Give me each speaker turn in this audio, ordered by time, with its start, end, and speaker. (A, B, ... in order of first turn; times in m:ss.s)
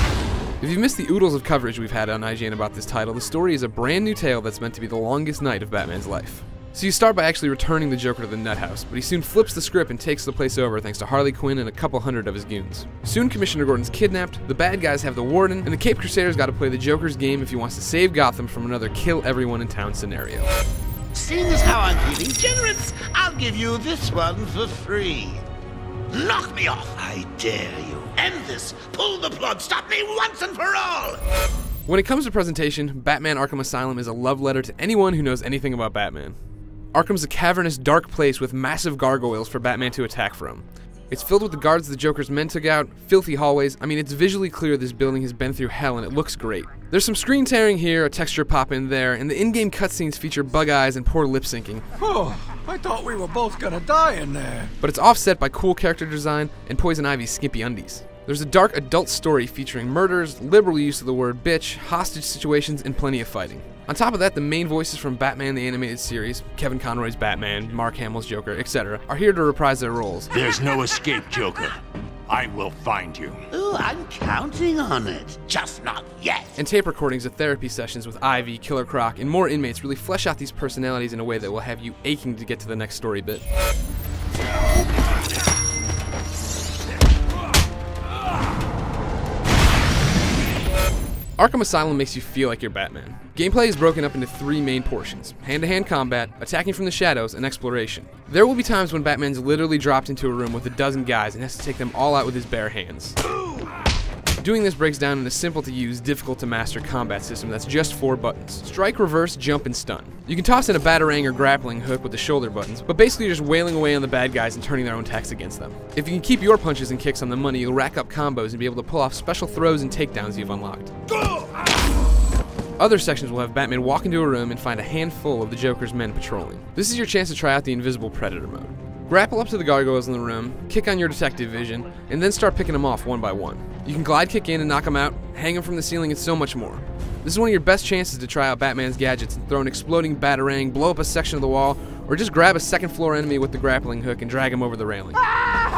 0:00.6-0:20.5 A
0:21.1-0:25.4 B
0:26.1-0:31.2 B
0:31.9-0:36.4 A
0:36.9-0:51.8 A
0:52.0-0:54.7 C
0:54.8-1:10.3 A
1:10.3-1:11.8 D
1:12.3-1:13.4 D
1:13.5-1:16.5 B
1:16.6-1:23.4 A
1:31.4-1:43.2 A
1:44.4-2:00.9 A
2:02.8-2:25.3 A